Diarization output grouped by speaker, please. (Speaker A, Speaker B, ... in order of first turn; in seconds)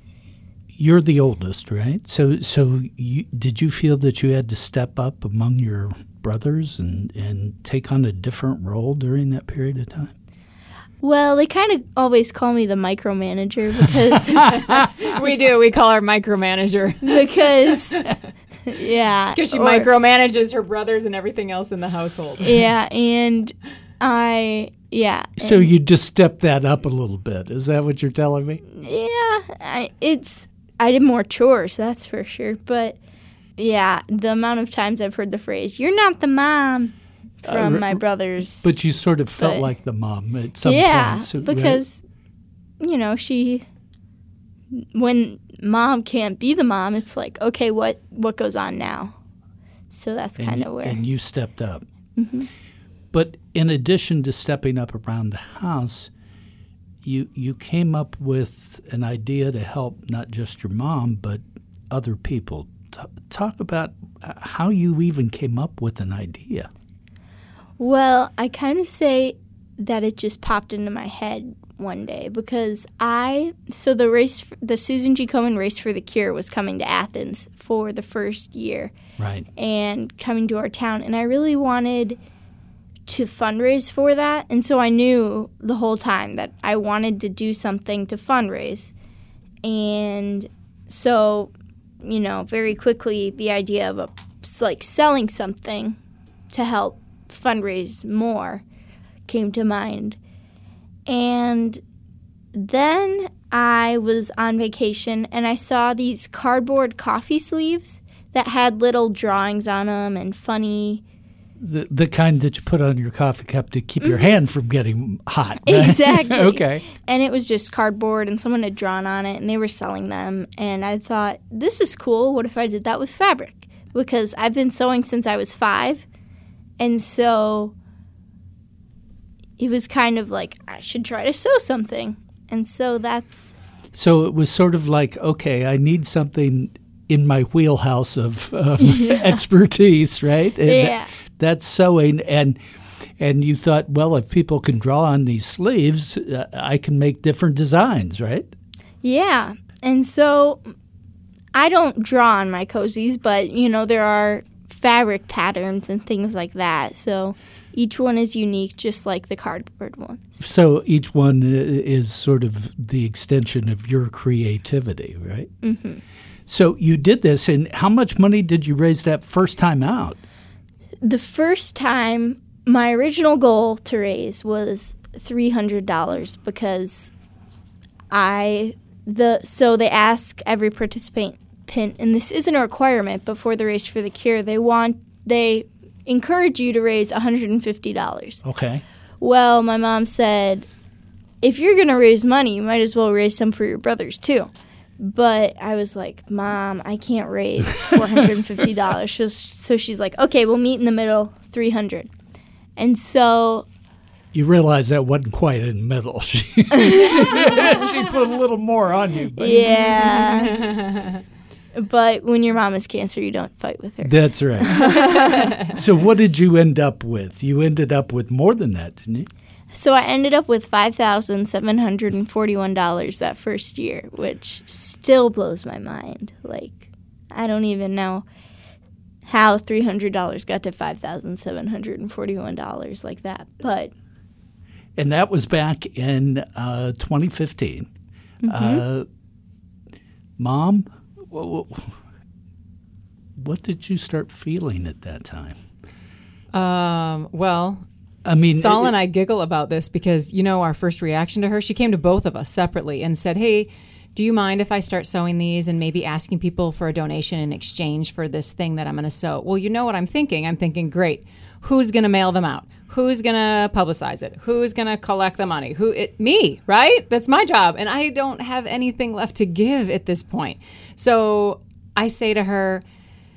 Speaker A: 0.8-10.1, 25.4-28.6, 37.4-38.0, 38.6-41.8, 50.4-51.9, 53.1-56.1, 57.0-66.7, 79.2-79.5, 111.6-116.8, 133.9-142.6, 143.2-148.5, 160.4-165.5, 166.5-170.2, 188.4-188.8, 204.3-210.3, 214.0-219.3, 235.0-237.9, 238.5-239.1, 240.4-242.0, 243.4-245.6, 248.2-248.9
Speaker B: 11.0-14.9, 17.0-18.0, 18.7-19.9, 22.4-25.7, 28.7-33.0, 33.6-38.7, 39.4-39.7, 40.6-42.0, 42.8-43.7, 44.7-49.2, 49.9-51.0, 52.2-52.5, 67.8-78.9, 79.6-82.2, 83.1-88.9, 89.6-96.0, 96.5-98.6, 99.3-100.2, 101.1-101.8, 102.5-111.0, 114.0-114.3, 115.7-126.0, 126.8-127.8, 129.6-133.5, 138.8-139.4, 140.7-141.1, 149.0-150.6, 151.5-160.4, 165.6-166.0, 171.0-177.1, 178.1-188.4, 189.2-190.7, 191.4-202.1, 202.8-203.7, 206.8-207.6, 209.4-210.8, 211.8-215.8, 219.7-228.3, 229.3-233.9, 238.4-238.8
Speaker C: 14.5-18.1, 19.3-22.7, 210.5-211.1, 246.5-247.8, 248.5-272.8